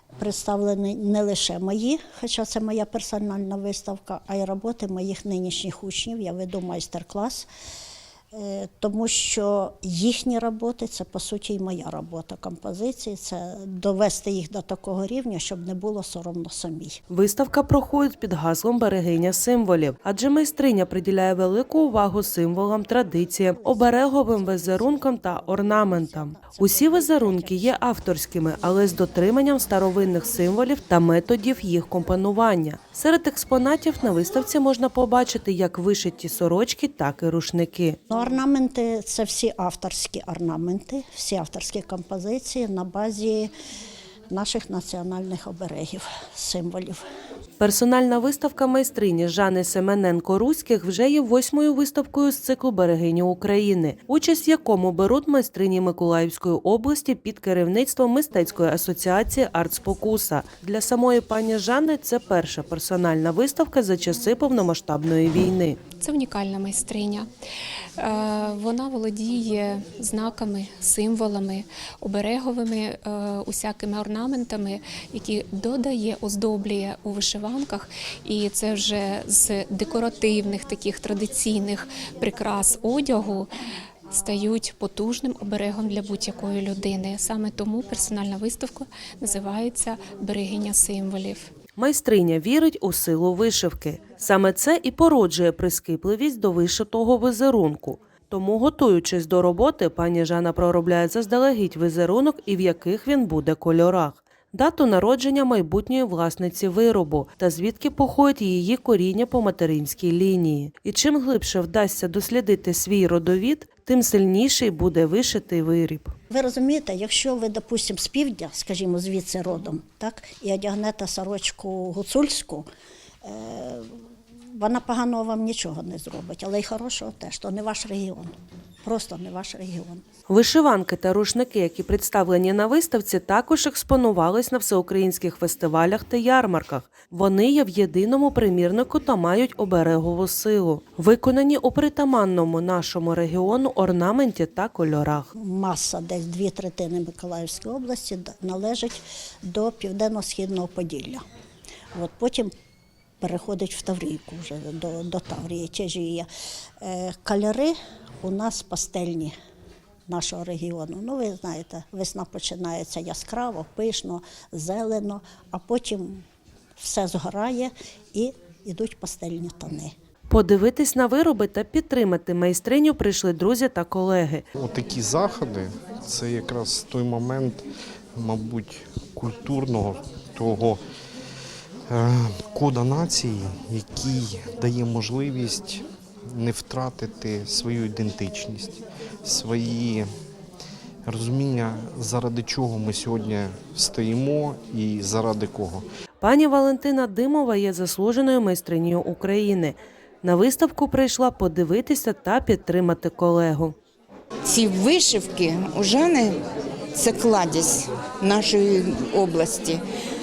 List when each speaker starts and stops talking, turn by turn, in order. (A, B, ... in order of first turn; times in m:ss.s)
0:00.2-0:07.5 A
0:08.3-0:17.0 A
0:17.1-0:38.0 B
0:23.5-0:27.9 A
0:38.1-0:43.5 A
0:44.3-0:47.0 A
0:47.6-1:05.8 B
1:06.0-1:07.3 C
1:08.0-1:23.5 C
1:24.1-1:31.5 C
1:31.8-1:56.1 B
1:56.3-2:02.7 A
2:03.2-2:04.0 A
2:04.5-2:08.3 A
2:08.8-2:10.0 A
2:10.3-2:25.3 B
2:25.4-2:31.2 A
2:32.0-2:32.5 A
2:33.2-2:36.3 A
2:36.8-2:39.3 A
2:40.1-2:46.2 A
2:46.8-2:49.9 A
2:50.3-2:54.4 B
2:54.6-3:00.8 D
3:01.9-3:10.1 D
3:11.1-3:15.9 D
3:16.2-3:23.8 B
3:24.4-3:26.4 E
3:26.9-3:29.8 E